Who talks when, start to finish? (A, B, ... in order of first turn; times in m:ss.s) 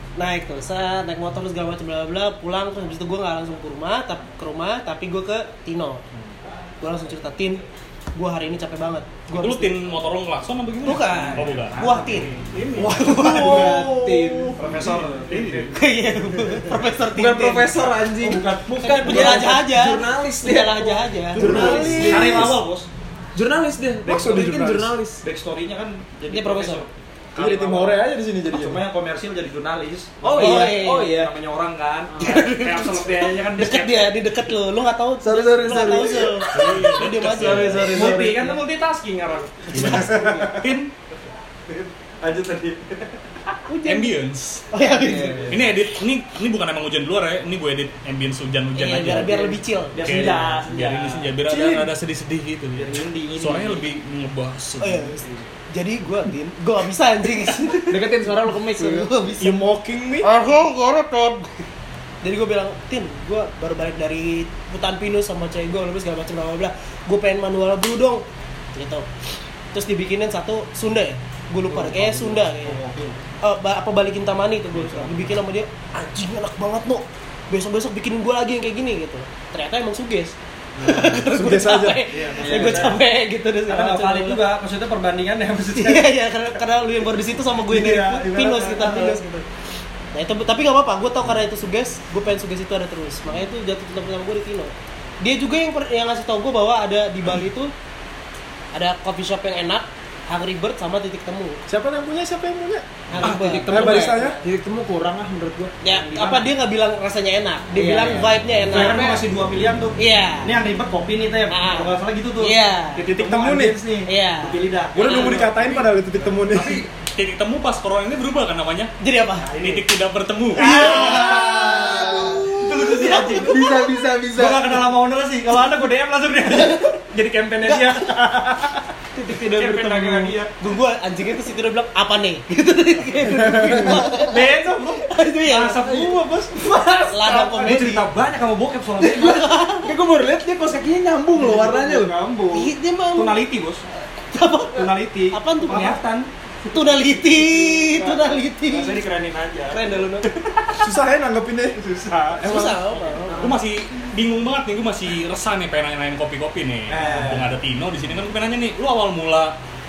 0:00.2-0:06.0 A
0:06.8-0:07.6 A
0:08.2-0:09.8 A
0:09.3-0:11.8 B
0:10.8-0:12.3 A
0:11.1-0:13.0 C
0:12.8-0:15.1 D
0:12.9-0:13.9 A
0:13.0-0:14.7 E
0:14.6-0:15.8 C
0:15.3-0:15.7 B
0:15.7-0:17.9 A
0:17.1-0:22.6 E
0:18.2-0:19.5 C
0:18.8-0:22.3 A
0:21.4-0:22.6 D
0:21.4-0:22.9 C
0:23.4-0:25.2 E
0:24.0-0:25.0 D
0:25.2-0:34.1 C
0:26.3-0:26.8 A
0:27.4-0:28.8 D
0:30.2-0:31.3 E
0:30.3-0:31.2 A
0:32.2-0:38.2 A
0:35.2-0:36.5 E
0:36.5-0:38.0 B
0:37.3-0:38.6 E
0:37.9-0:40.9 C
0:39.7-0:40.9 B
0:41.7-0:43.5 C
0:43.7-0:44.2 A
0:43.8-0:44.7 B
0:44.7-0:45.6 A
0:44.8-0:45.7 E
0:45.5-0:55.2 B
0:48.8-0:50.0 A
0:49.9-0:51.4 C
0:52.8-0:53.8 C
0:54.8-0:59.6 A
0:55.2-0:55.5 C
0:57.9-0:59.1 E
0:59.4-1:00.3 D
1:00.3-1:01.4 A
1:02.2-1:08.2 A
1:08.8-1:09.1 A
1:09.7-1:12.8 A
1:11.7-1:13.2 C
1:13.4-1:24.4 A
1:14.7-1:15.3 C
1:20.8-1:21.2 C
1:21.2-1:22.0 D
1:22.1-1:23.0 C
1:23.7-1:26.1 C
1:25.8-1:29.4 A
1:27.7-1:29.3 D
1:30.1-1:37.7 A
1:38.7-1:41.6 A
1:41.7-1:42.9 D
1:43.1-1:44.5 A
1:43.2-1:45.8 E
1:43.6-1:44.4 D
1:45.8-1:49.2 A
1:45.9-1:46.5 C
1:47.7-1:49.2 E
1:48.7-1:56.3 C
1:50.0-1:50.6 A
1:51.5-1:53.1 A
1:53.2-1:53.8 D
1:54.1-1:55.3 A
1:54.9-1:56.8 D
1:56.4-1:58.9 B
1:59.0-1:59.8 A
1:59.5-1:59.8 C
1:59.5-2:00.7 B
2:00.6-2:03.6 A
2:00.6-2:03.7 C
2:00.8-2:01.5 D
2:01.3-2:02.4 E
2:03.1-2:04.9 E
2:04.3-2:10.5 C
2:07.7-2:08.1 A
2:09.2-2:10.4 E
2:10.6-2:16.1 A
2:13.4-2:14.0 D
2:13.9-2:19.5 C
2:17.1-2:18.1 A
2:19.0-2:19.9 A
2:19.8-2:22.1 E
2:21.4-2:23.8 C
2:22.5-2:23.4 A
2:24.3-2:26.0 A
2:24.7-2:30.9 C
2:26.7-2:29.0 A
2:29.7-2:30.3 A
2:30.8-2:31.8 D
2:31.8-2:33.6 C
2:32.4-2:33.6 A
2:32.5-2:32.8 D
2:33.4-2:39.6 B
2:36.9-2:37.5 C